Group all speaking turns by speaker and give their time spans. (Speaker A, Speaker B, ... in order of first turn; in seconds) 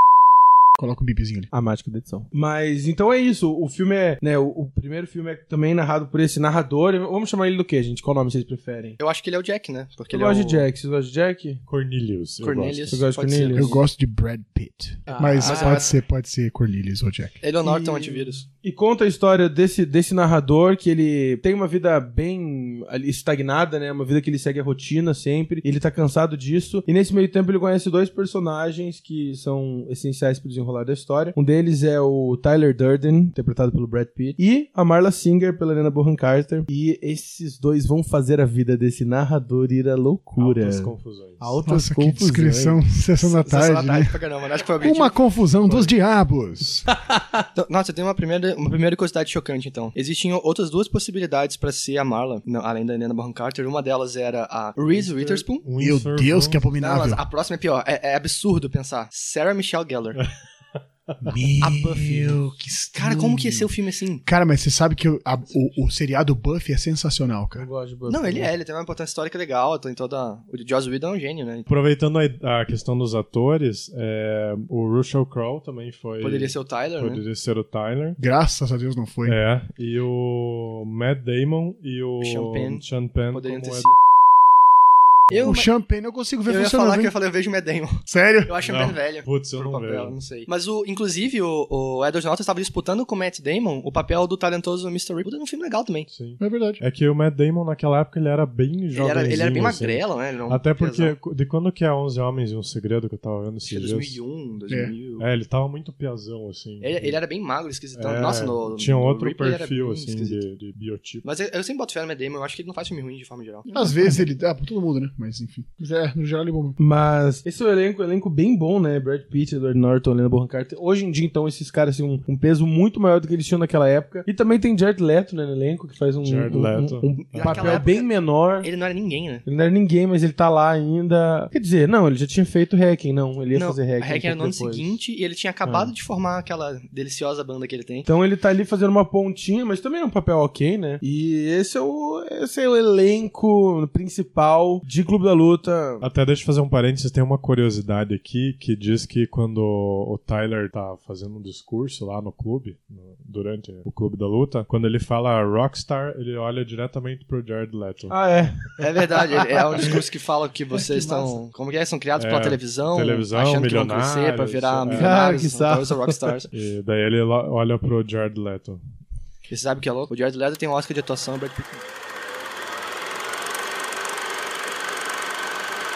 Speaker A: 0.8-1.5, 13.5-17.4, 41.6-44.2, 44.8-46.9, 55.8-57.2, 61.2-63.7, 64.2-67.7, 78.2-79.4, 85.3-87.1, 88.1-88.6, 96.4-96.8, 104.7-104.9, 113.7-116.8
Speaker B: 1.5-9.0, 10.1-11.6, 12.9-13.8, 15.1-15.9, 17.6-42.8, 46.9-47.4, 54.9-55.4, 67.6-68.5, 116.8-128.7, 129.4-135.0, 135.7-135.9, 138.1-146.1, 158.1-159.8, 160.7-161.4, 164.9-166.3
Speaker C: 9.0-10.7, 12.4-13.8, 15.4-15.9, 17.4-18.4, 43.2-45.2, 47.5-55.7, 56.8-60.2, 61.6-62.4, 63.0-64.2, 65.5-65.8, 68.1-71.7, 76.2-77.2, 82.2-84.0, 85.3-85.7, 86.5-96.1, 98.9-101.2, 103.7-105.3, 106.8-110.4, 111.2-114.1, 127.3-129.4, 133.5-138.1, 158.8-166.5, 169.5-171.8
Speaker D: 11.7-13.0, 40.4-41.6, 55.2-56.6, 71.7-78.2, 79.2-83.9, 88.6-90.2, 96.1-104.2, 105.2-107.2, 107.9-111.2, 126.2-127.7, 146.0-158.2, 162.2-165.2, 166.5-168.8